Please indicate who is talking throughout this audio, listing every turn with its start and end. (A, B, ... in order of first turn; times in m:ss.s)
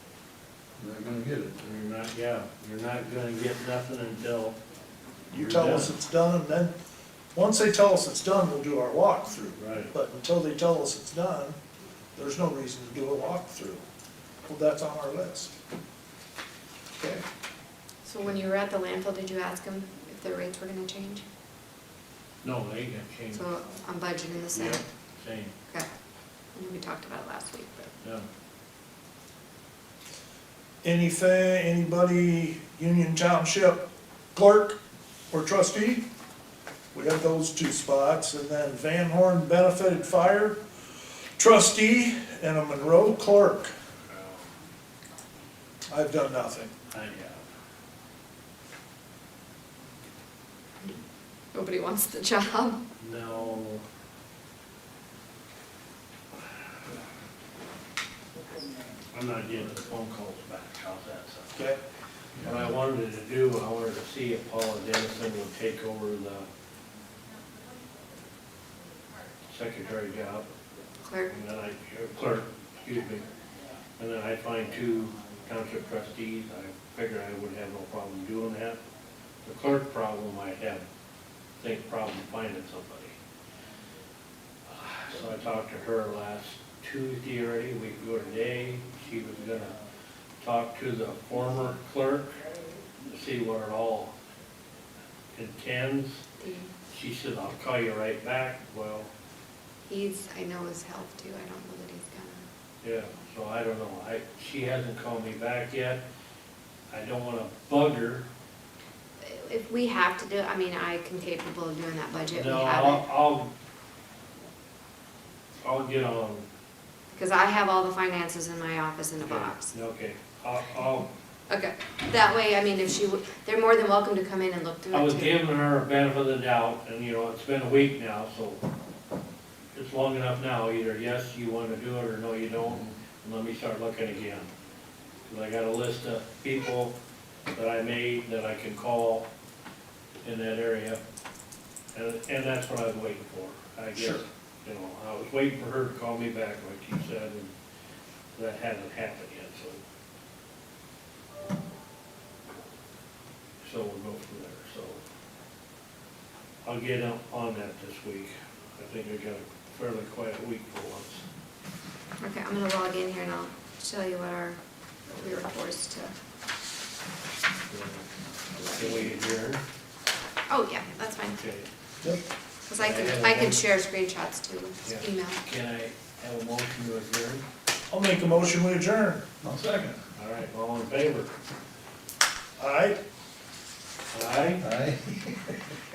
0:00.8-0:01.5 A
0:01.6-0:04.6 B
0:05.3-0:06.7 C
0:05.4-0:05.9 B
0:07.3-0:11.6 C
0:09.6-0:09.9 B
0:12.2-0:13.8 C
0:14.4-0:15.5 C
0:18.0-0:21.2 D
0:22.4-0:23.4 B
0:23.3-0:24.8 D
0:24.5-0:25.5 B
0:26.5-0:27.9 D
0:30.8-0:33.8 C
0:34.3-0:34.8 C
0:35.3-0:36.0 C
0:36.9-0:40.6 C
0:41.4-0:43.7 C
0:44.1-0:44.4 B
0:45.9-0:46.7 C
0:46.9-0:47.4 B
0:51.5-0:52.8 D
0:53.0-0:53.8 B
0:59.1-1:01.6 B
1:02.4-1:06.5 B
1:09.5-1:10.5 B
1:11.0-1:11.3 D
1:11.3-1:13.2 B
1:14.0-1:18.8 B
1:19.4-1:20.8 B
1:21.6-1:23.2 B
1:24.6-1:29.8 B
1:30.4-1:32.4 B
1:33.0-1:34.2 B
1:35.3-1:36.2 B
1:36.4-1:36.7 D
1:36.9-1:39.1 B
1:39.9-1:42.4 D
1:42.8-1:46.0 B
1:46.9-1:48.2 B
1:49.2-1:53.0 D
1:52.3-1:53.5 B
1:55.6-1:56.5 B
1:57.1-1:59.7 D
1:59.2-2:01.1 B
2:01.5-2:05.4 D
2:04.9-2:08.6 B
2:09.7-2:14.5 B
2:15.3-2:17.0 B
2:17.5-2:19.3 B
2:20.2-2:21.0 B
2:21.9-2:27.5 B
2:24.0-2:24.2 C
2:28.4-2:29.8 B
2:33.6-2:35.0 B
2:36.6-2:41.2 B
2:42.2-2:46.1 D
2:47.7-2:48.1 B
2:48.6-2:49.6 B
2:50.5-2:51.4 D
2:51.4-2:51.7 B
2:52.7-2:55.4 D
2:52.8-2:53.6 B
2:54.8-2:57.4 B
2:57.9-2:59.3 C
2:59.4-3:00.0 A
3:00.1-3:01.4 B
3:02.6-3:03.0 C
3:04.1-3:04.7 B
3:04.6-3:05.4 A